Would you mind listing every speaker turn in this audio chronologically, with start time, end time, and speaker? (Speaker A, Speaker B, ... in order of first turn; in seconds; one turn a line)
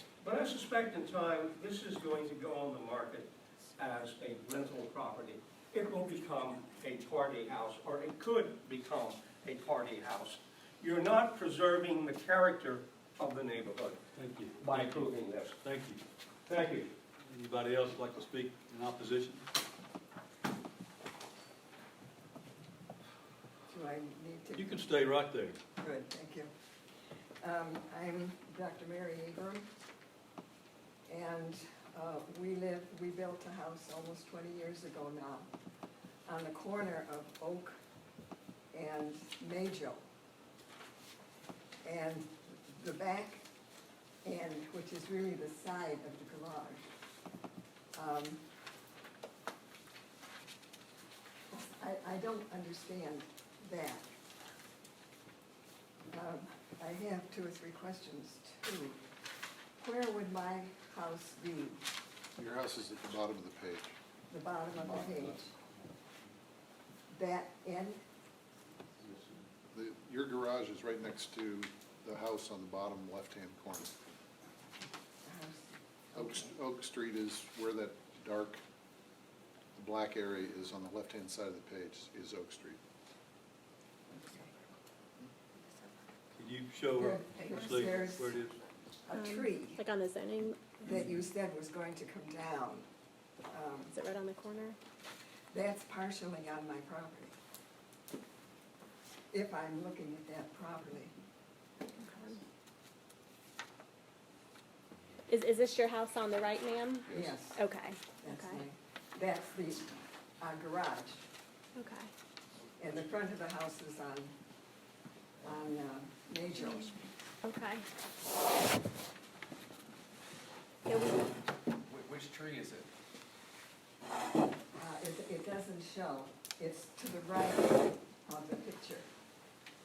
Speaker A: 0.2-14.0
Speaker B: 14.2-16.0
Speaker A: 14.6-15.6
Speaker A: 16.4-16.9
Speaker B: 17.3-19.4
Speaker C: 23.7-24.9
Speaker B: 24.5-25.6
Speaker C: 25.8-26.5
Speaker C: 27.4-29.7
Speaker C: 31.1-35.5
Speaker C: 36.2-37.8
Speaker C: 38.7-40.0
Speaker C: 41.8-43.4
Speaker C: 44.2-46.9
Speaker C: 47.9-48.4
Speaker C: 51.5-54.1
Speaker C: 56.1-59.0
Speaker C: 59.8-61.8
Speaker D: 62.4-63.9
Speaker C: 64.3-65.5
Speaker E: 64.9-65.2
Speaker C: 67.1-68.0
Speaker E: 69.0-69.5
Speaker D: 69.7-73.9
Speaker C: 75.2-76.5
Speaker D: 76.2-78.6
Speaker D: 79.8-82.8
Speaker C: 84.1-84.5
Speaker E: 85.6-86.0
Speaker B: 86.3-88.5
Speaker C: 87.0-88.4
Speaker E: 87.5-87.8
Speaker C: 89.0-89.8
Speaker F: 89.1-90.8
Speaker C: 90.8-92.9
Speaker C: 93.5-93.9
Speaker F: 93.9-94.8
Speaker C: 95.5-97.3
Speaker C: 99.3-101.1
Speaker F: 101.9-102.4
Speaker F: 105.3-108.6
Speaker C: 107.1-107.6
Speaker C: 108.2-111.2
Speaker F: 111.7-112.1
Speaker C: 112.8-114.3
Speaker C: 115.4-117.0
Speaker F: 117.4-117.9
Speaker F: 120.8-121.3
Speaker E: 121.9-122.9
Speaker C: 124.7-129.1